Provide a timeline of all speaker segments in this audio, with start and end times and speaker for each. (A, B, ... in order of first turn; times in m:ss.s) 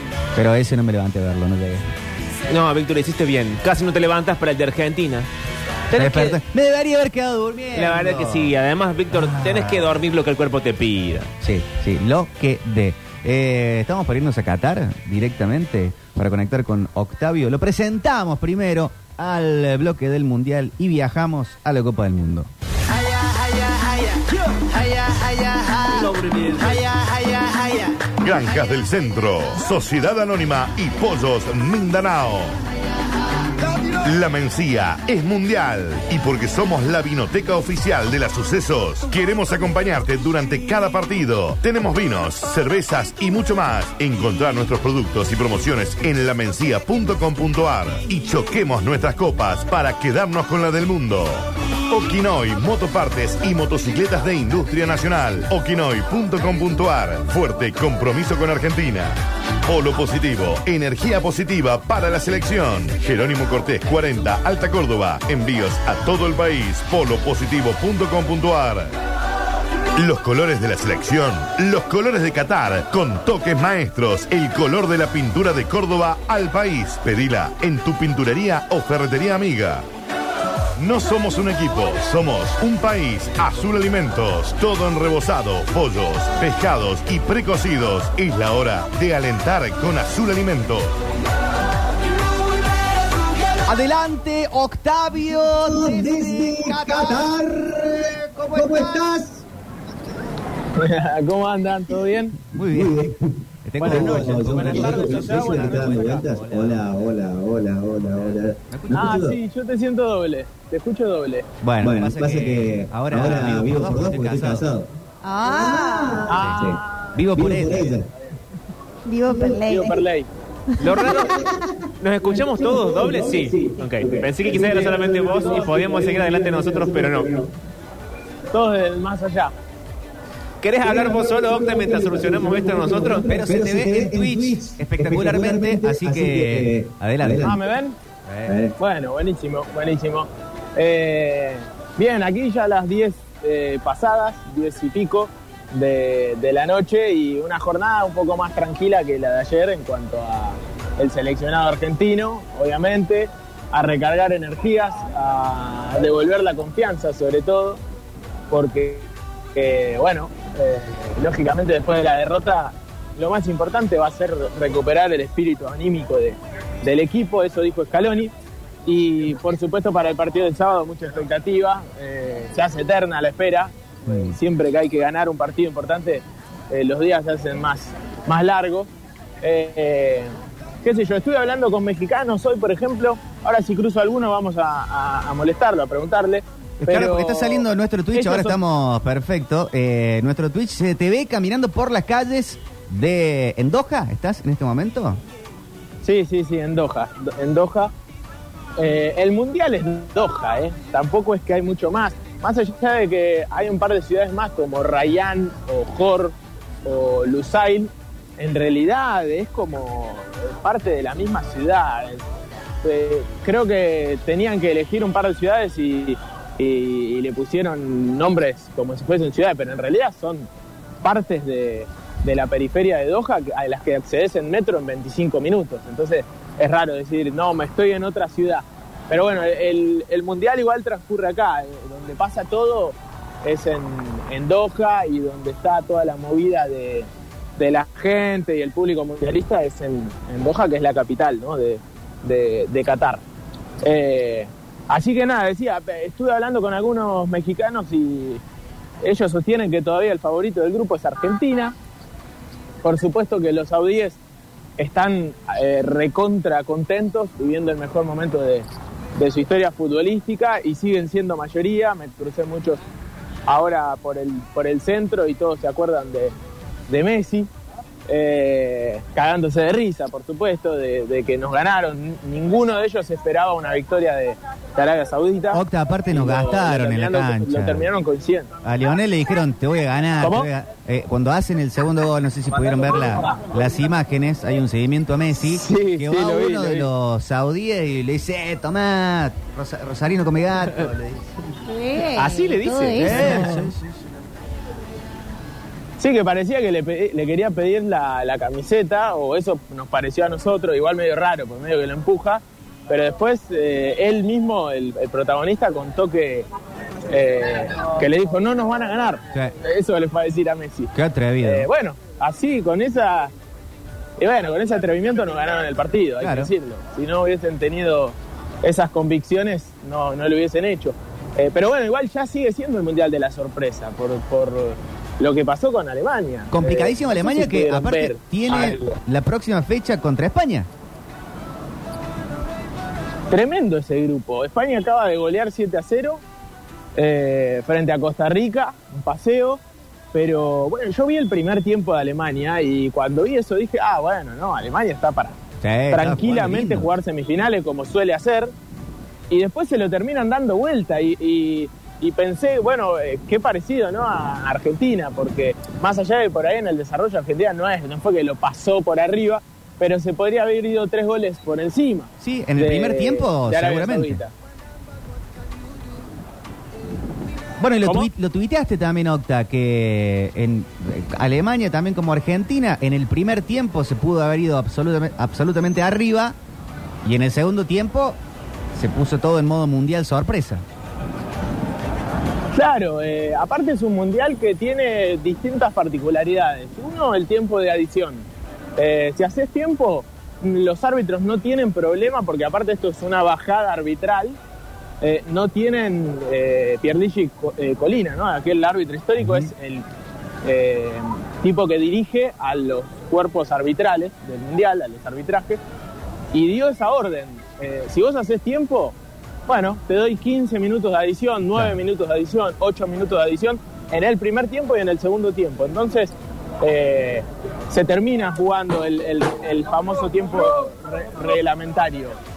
0:00.4-0:01.9 A
0:02.5-0:05.3 B
0:05.9-0:06.4 B
0:06.0-0:08.5 A
0:07.8-0:11.3 B
0:09.1-0:09.9 A
0:11.4-0:28.2 A
0:28.2-0:32.5 C
0:34.0-0:51.4 C
0:51.9-1:08.9 C
1:10.0-1:19.8 C
1:20.8-1:30.9 C
1:33.6-1:39.1 A
1:35.8-1:37.8 D
1:38.6-1:39.4 D
1:40.8-1:42.4 E
1:42.5-1:47.2 A
1:42.7-1:49.4 D
1:43.8-1:46.3 E
1:44.8-1:45.5 B
1:48.1-1:49.2 A
1:48.9-1:51.5 E
1:51.6-1:54.7 A
1:51.8-1:54.9 D
1:55.2-1:56.3 F
1:55.5-1:56.8 D
1:56.2-1:57.1 E
1:56.3-1:58.0 A
1:57.3-1:58.1 D
1:59.1-2:00.0 F
1:59.4-2:00.3 E
2:00.7-2:01.7 F
2:00.8-2:01.4 B
2:02.0-2:07.4 B
2:04.0-2:07.3 D
2:05.2-2:06.1 E
2:08.5-2:09.5 E
2:10.6-2:13.5 B
2:10.9-2:17.6 D
2:13.2-2:17.6 A
2:17.4-2:18.0 E
2:18.3-2:18.6 A
2:18.8-2:37.8 E
2:38.5-2:48.3 E
2:48.9-2:58.9 E
2:59.4-3:08.6 E
3:06.8-3:15.2 A
3:16.0-3:17.9 E
3:18.8-3:32.3 E
3:32.8-3:40.5 E
3:41.0-4:03.2 E
4:03.8-4:08.4 E
4:09.0-4:11.8 E
4:12.8-4:14.2 E
4:14.8-4:22.8 E
4:23.5-4:26.3 E
4:26.9-4:27.5 E
4:28.1-4:38.5 E
4:35.5-4:37.9 A
4:38.6-4:51.3 A
4:40.2-4:40.5 E
4:45.4-4:46.9 E
4:51.7-4:53.6 F
4:52.2-4:53.5 B
4:53.0-4:54.0 A
4:56.0-5:06.5 E
5:07.1-5:13.3 E
5:10.9-5:11.7 A
5:14.2-5:29.0 E
5:16.2-5:16.5 A
5:26.5-5:30.7 A
5:33.3-5:36.2 E
5:37.0-5:39.6 E
5:40.1-5:45.4 E
5:45.6-5:46.9 A
5:45.9-5:48.5 E
5:49.3-6:04.3 E
6:02.2-6:04.2 A
6:07.6-6:16.4 A
6:07.8-6:08.1 E
6:17.0-6:18.2 A
6:18.8-6:20.6 A
6:22.5-6:34.4 E
6:35.0-6:39.9 E
6:39.2-6:39.5 A
6:40.4-6:45.6 E
6:46.3-6:49.0 E
6:49.5-7:02.2 E